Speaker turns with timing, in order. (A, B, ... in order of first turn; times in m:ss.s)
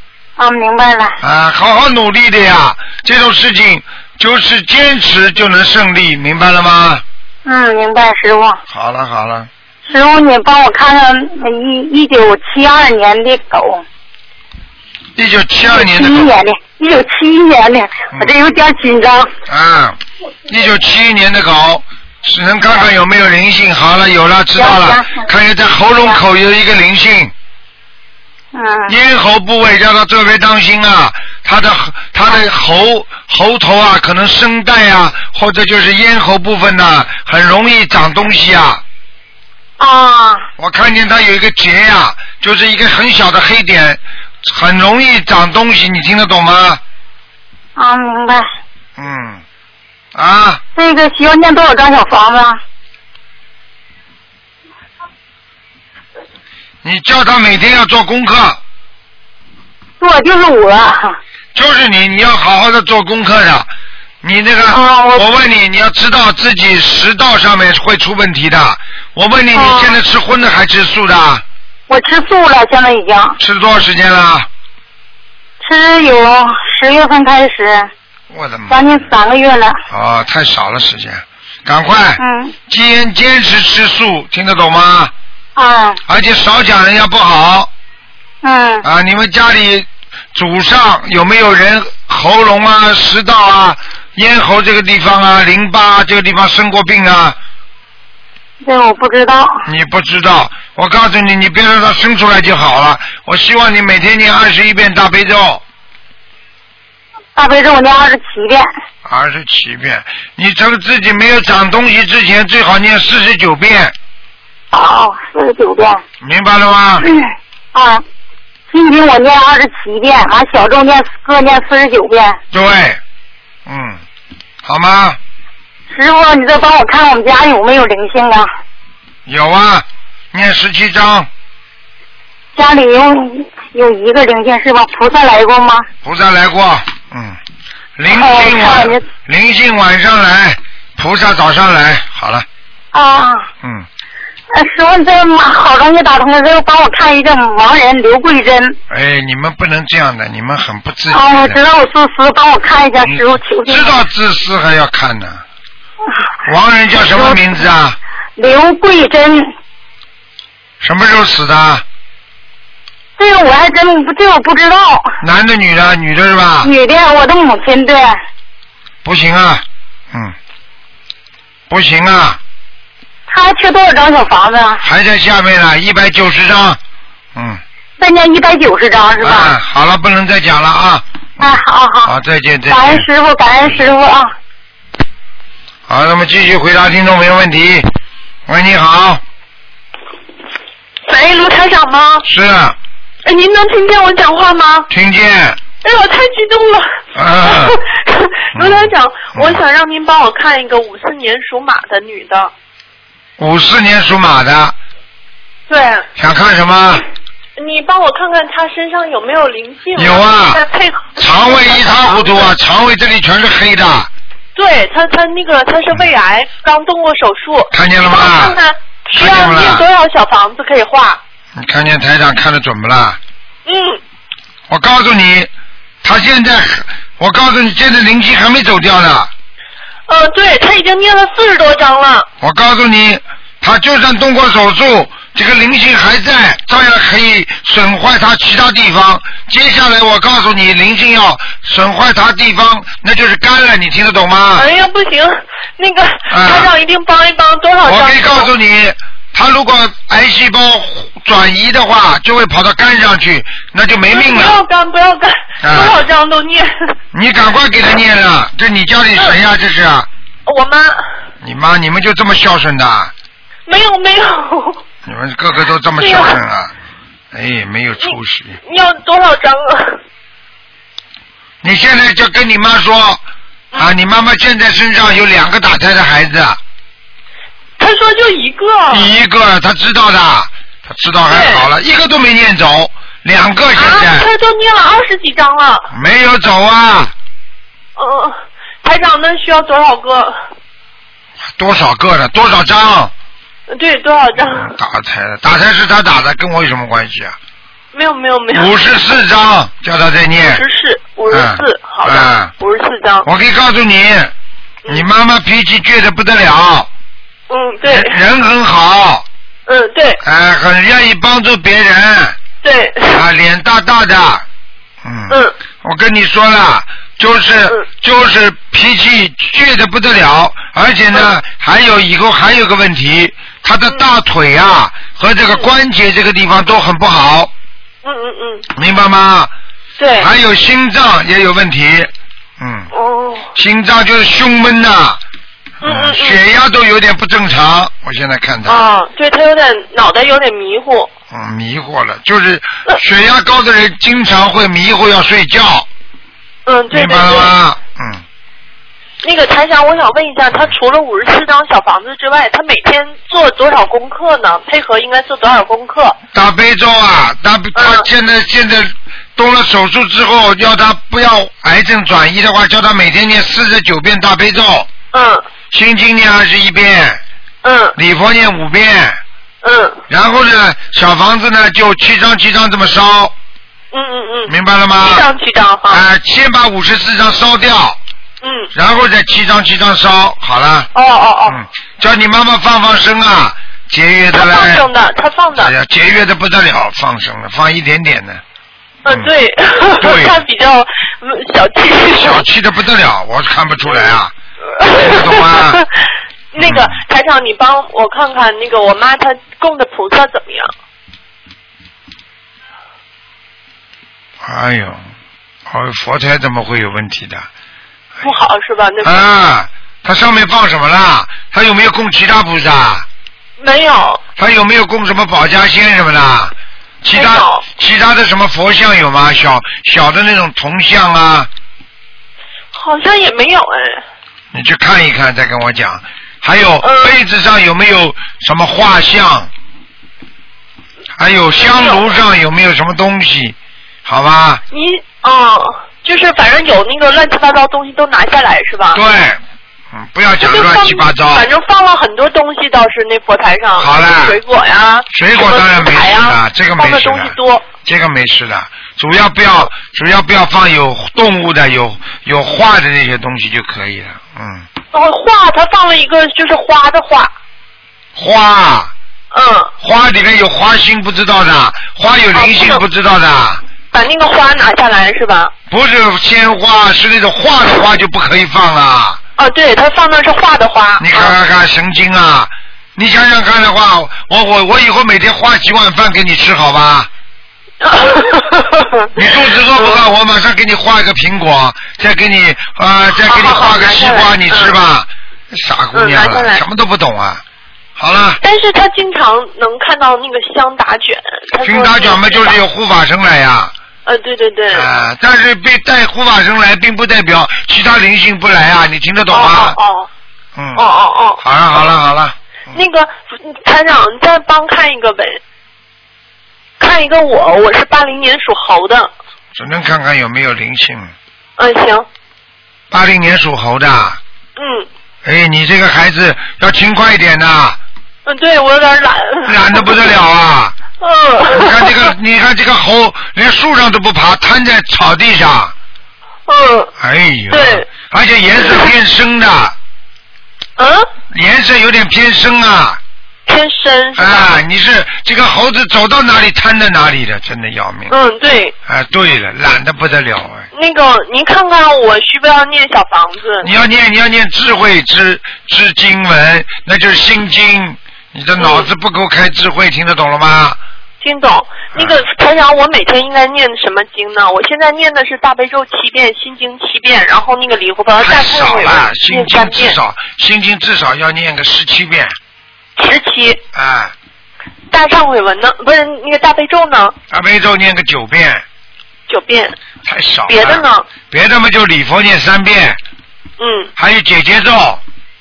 0:00.4-0:01.2 A
0:01.2-0:07.0 B
0:07.4-0:08.6 A
0:08.7-0:09.5 B
0:09.9-0:13.8 A
0:15.2-0:16.3 B
0:15.7-0:19.3 A
0:19.5-0:27.3 B
0:24.6-0:25.3 A
0:28.5-0:29.0 A
0:28.9-0:38.8 B
0:39.8-0:40.5 A
0:40.6-0:46.8 B
0:47.8-0:48.5 A
0:49.0-0:49.4 B
0:50.2-0:50.6 B
0:50.8-0:52.6 A
0:56.8-0:58.6 B
1:00.0-1:01.2 A
1:01.6-1:03.7 B
1:04.2-1:11.4 B
1:04.7-1:05.2 A
1:09.6-1:10.0 A
1:11.9-1:13.4 A
1:13.4-1:14.5 B
1:15.6-1:17.9 A
1:18.3-1:19.0 B
1:18.7-1:19.8 A
1:19.9-1:25.1 B
1:22.2-1:22.6 A
1:25.6-1:26.0 A
1:26.1-1:27.7 B
1:28.4-1:28.9 A
1:28.8-1:37.4 B
1:38.6-1:39.7 A
1:39.7-1:45.6 B
1:47.4-1:48.7 A
1:49.0-1:54.0 B
1:54.7-1:56.0 A
1:56.2-1:57.1 B
1:57.0-1:58.0 A
1:58.7-2:02.4 A
2:02.5-2:03.0 B
2:03.7-2:04.0 B
2:04.6-2:05.2 B
2:05.9-2:08.5 A
2:09.3-2:11.3 B
2:12.6-2:15.9 A
2:16.0-2:17.4 B
2:18.0-2:22.5 B
2:18.1-2:19.0 A
2:22.9-2:23.5 A
2:23.6-2:23.9 B
2:24.5-2:28.8 A
2:28.9-2:31.6 B
2:31.1-2:34.0 A
2:33.0-2:35.4 B
2:36.4-2:38.0 B
2:37.0-2:37.4 A
2:38.4-2:39.5 A
2:40.8-2:41.8 B
2:43.2-2:45.2 A
2:45.2-2:46.7 B
2:46.6-2:48.2 A
2:49.0-2:50.4 B
2:51.7-2:52.4 B
2:53.3-2:54.8 A
2:54.8-2:56.8 B
2:57.4-2:57.6 B
2:58.0-2:59.6 A
2:59.2-3:03.1 B
3:01.4-3:02.1 A
3:02.7-3:04.3 A
3:05.9-3:07.9 B
3:08.5-3:09.2 B
3:11.1-3:12.3 C
3:12.2-3:12.8 B
3:13.2-3:14.9 C
3:14.9-3:15.6 B
3:15.8-3:22.5 C
3:17.2-3:17.8 B
3:18.6-3:19.6 B
3:23.4-3:24.8 B
3:25.7-3:26.1 C
3:26.2-3:27.0 B
3:27.6-3:32.5 C
3:30.0-3:30.6 B
3:31.2-3:34.1 B
3:34.6-3:41.2 C
3:37.7-3:38.6 B
3:39.1-3:39.9 B
3:41.6-3:43.2 B
3:43.7-3:44.0 C
3:44.7-3:45.5 B
3:46.0-3:49.3 B
3:50.1-3:52.3 C
3:52.4-4:04.7 B
4:04.6-4:08.5 C
4:06.3-4:06.7 B
4:07.8-4:14.6 B
4:14.1-4:17.0 C
4:15.6-4:16.0 B
4:17.1-4:20.1 B
4:20.5-4:21.1 C
4:21.4-4:23.1 B
4:23.7-4:24.8 C
4:25.0-4:26.7 B
4:26.0-4:26.4 C
4:27.3-4:28.6 B
4:28.0-4:30.0 C
4:31.6-4:33.2 B
4:33.8-4:36.6 B
4:37.8-4:39.1 C
4:38.9-4:44.3 B
4:41.3-4:41.7 C
4:43.7-4:45.9 C
4:45.9-4:47.1 B
4:48.0-4:50.4 C
4:51.6-4:53.1 B
4:53.7-4:54.7 C
4:54.5-4:57.4 B
4:57.9-4:58.7 C
4:58.5-5:00.6 B
5:00.4-5:03.3 C
5:01.3-5:02.5 B
5:03.2-5:04.3 B
5:04.9-5:06.9 B
5:07.5-5:08.2 C
5:07.9-5:09.3 B
5:09.7-5:10.2 C
5:10.2-5:12.4 B
5:12.6-5:13.2 C
5:13.1-5:14.4 B
5:15.0-5:27.5 B
5:15.3-5:15.6 C
5:28.0-5:28.7 C
5:28.8-5:29.5 B
5:30.0-5:30.3 C
5:30.2-5:32.9 B
5:32.9-5:33.5 C
5:33.5-5:35.2 B
5:35.8-5:36.4 C
5:35.8-5:38.9 B
5:38.7-5:41.1 C
5:41.3-5:45.9 B
5:46.7-5:47.5 C
5:46.9-5:48.2 B
5:49.2-5:56.2 C
5:56.3-6:04.9 B
5:57.8-5:58.1 C
6:05.1-6:05.4 C
6:05.7-6:07.2 B
6:07.6-6:08.0 C
6:08.0-6:09.2 B
6:09.6-6:10.0 C
6:10.1-6:13.3 B
6:13.9-6:16.0 C
6:14.5-6:15.3 B
6:15.9-6:18.0 B
6:18.4-6:18.7 C
6:18.7-6:20.9 B
6:21.0-6:21.6 C
6:21.5-6:24.9 B
6:24.3-6:25.7 C
6:25.6-6:28.4 B
6:29.0-6:32.4 C
6:29.1-6:29.3 B
6:30.0-6:30.4 B
6:32.2-6:35.8 B
6:34.7-6:35.9 C
6:36.5-6:40.7 C
6:36.6-6:37.0 B
6:44.4-6:45.0 B
6:45.7-6:47.5 B
6:48.2-6:49.2 C
6:49.0-6:53.1 B
6:53.6-6:54.2 C
6:54.4-7:01.5 B
6:57.1-6:57.7 C
7:02.7-7:04.0 C
7:04.5-7:09.5 B
7:06.8-7:07.2 C
7:11.2-7:14.6 B
7:11.6-7:12.1 C
7:14.7-7:19.0 C
7:18.9-7:21.5 B
7:20.4-7:27.7 C
7:23.8-7:24.4 B
7:25.1-7:34.7 B
7:34.9-7:37.3 C
7:38.2-7:38.9 B
7:39.3-7:39.7 C
7:39.8-7:43.6 B
7:42.3-7:42.8 C
7:43.9-7:45.5 C
7:45.7-7:49.2 B
7:49.4-7:51.4 C
7:51.0-7:57.1 B
7:57.8-7:59.1 C
7:59.2-8:07.4 B
7:59.7-8:00.0 C
8:03.2-8:04.8 C
8:05.9-8:06.6 C
8:08.0-8:08.4 B
8:08.4-8:12.6 C
8:11.6-8:13.7 B
8:14.1-8:14.9 C
8:14.7-8:19.8 B
8:19.3-8:20.1 C
8:20.6-8:22.8 B
8:20.8-8:21.4 C
8:22.7-8:25.4 C
8:26.8-8:29.1 C
8:29.6-8:31.1 B
8:31.6-8:32.1 C
8:32.9-8:34.2 B
8:34.6-8:34.9 C
8:35.2-8:37.8 B
8:38.3-8:40.0 C
8:39.5-8:40.8 B
8:41.0-8:42.1 C
8:41.5-8:45.7 B
8:46.5-8:46.9 C
8:47.0-8:49.8 B
8:47.5-8:47.9 C
8:50.8-8:51.1 C
8:51.3-8:53.0 B
8:53.5-8:54.6 C
8:54.2-8:58.1 B
8:58.1-8:58.8 C
8:58.9-9:00.7 B
9:00.7-9:03.7 C
9:03.6-9:10.8 B
9:08.6-9:08.9 C
9:11.2-9:20.0 C
9:18.2-9:22.4 B
9:23.0-9:23.6 C
9:23.7-9:24.1 B
9:24.9-9:27.2 C
9:27.3-9:28.6 B
9:29.3-9:29.8 C
9:30.0-9:33.0 B
9:30.5-9:31.1 C
9:33.6-9:33.9 C
9:34.0-9:35.0 B